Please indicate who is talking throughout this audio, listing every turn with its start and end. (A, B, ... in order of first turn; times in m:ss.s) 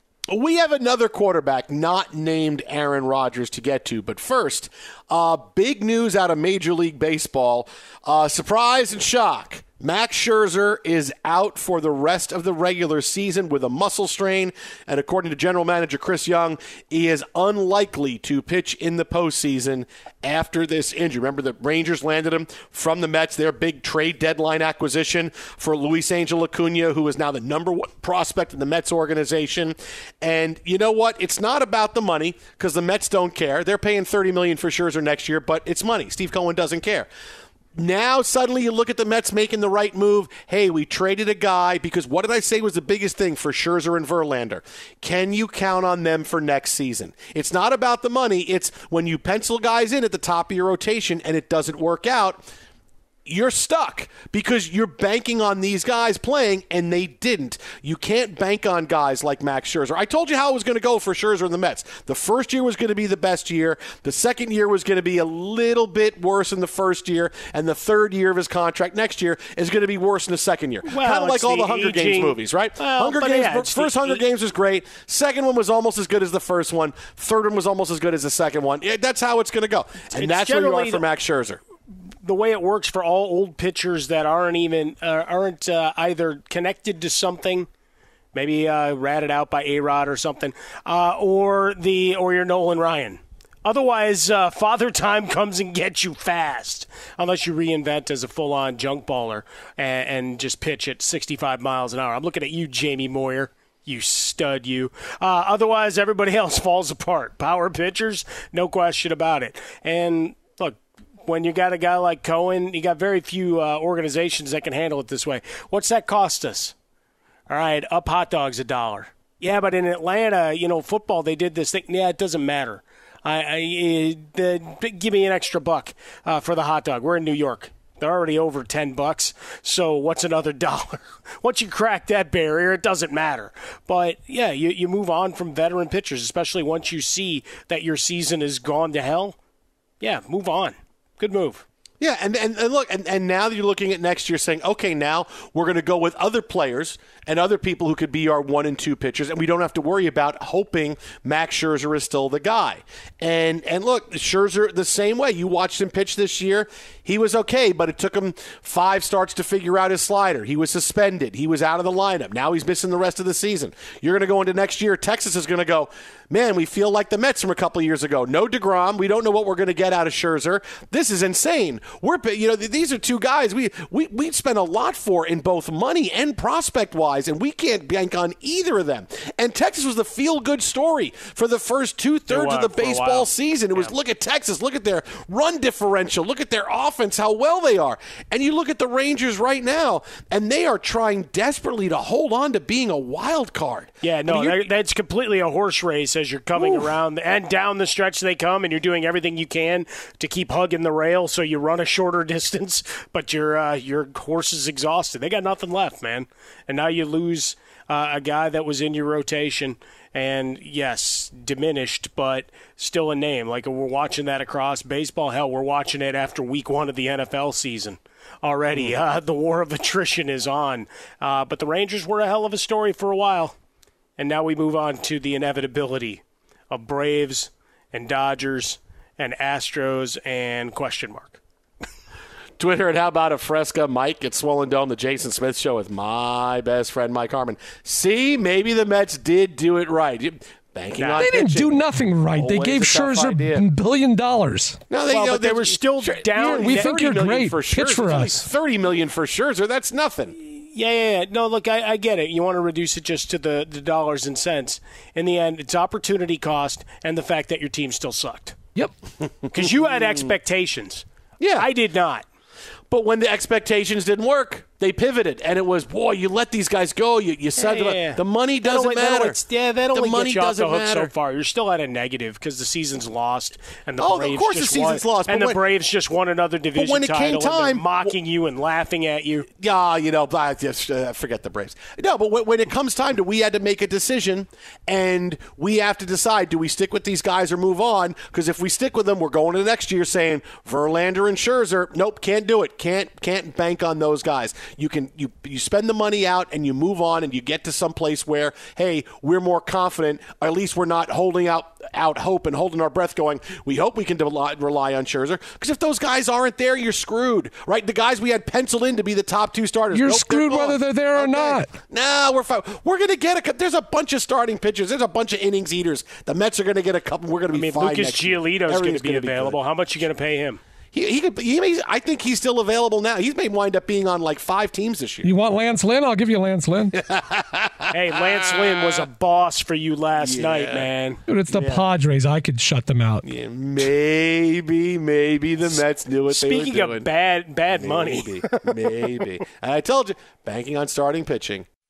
0:00.3-0:37.1 A
0:37.7-0:52.4 A
0:53.2-1:21.6 A
1:10.8-1:14.2 B
1:20.1-1:21.0 B
1:22.2-1:27.7 B
1:28.3-1:56.7 B
1:57.5-2:19.4 B
2:20.0-2:21.6 B
2:22.0-3:14.7 A
3:02.3-3:03.9 B
3:14.0-3:43.5 B
3:16.5-3:16.9 A
3:44.2-3:51.4 B
3:52.6-4:03.6 A
4:01.0-4:01.3 B
4:01.2-4:04.8 C
4:04.9-4:10.3 A
4:05.1-4:07.1 B
4:06.4-4:08.5 C
4:10.5-4:18.6 B
4:19.4-4:20.2 A
4:19.5-4:21.0 B
4:21.4-4:21.7 A
4:21.6-4:22.2 B
4:22.9-4:29.4 A
4:27.6-4:39.5 B
4:29.9-4:31.1 A
4:34.0-4:35.6 A
4:36.8-4:38.1 A
4:39.6-5:19.6 A
5:09.9-5:11.7 C
5:17.5-5:20.6 B
5:20.9-5:25.3 A
5:25.2-5:26.9 C
5:27.0-5:29.0 A
5:27.9-5:31.2 B
5:30.2-5:30.9 A
5:31.3-5:33.2 C
5:31.5-5:31.8 A
5:33.2-5:37.1 A
5:35.7-5:38.7 B
5:37.7-5:41.6 A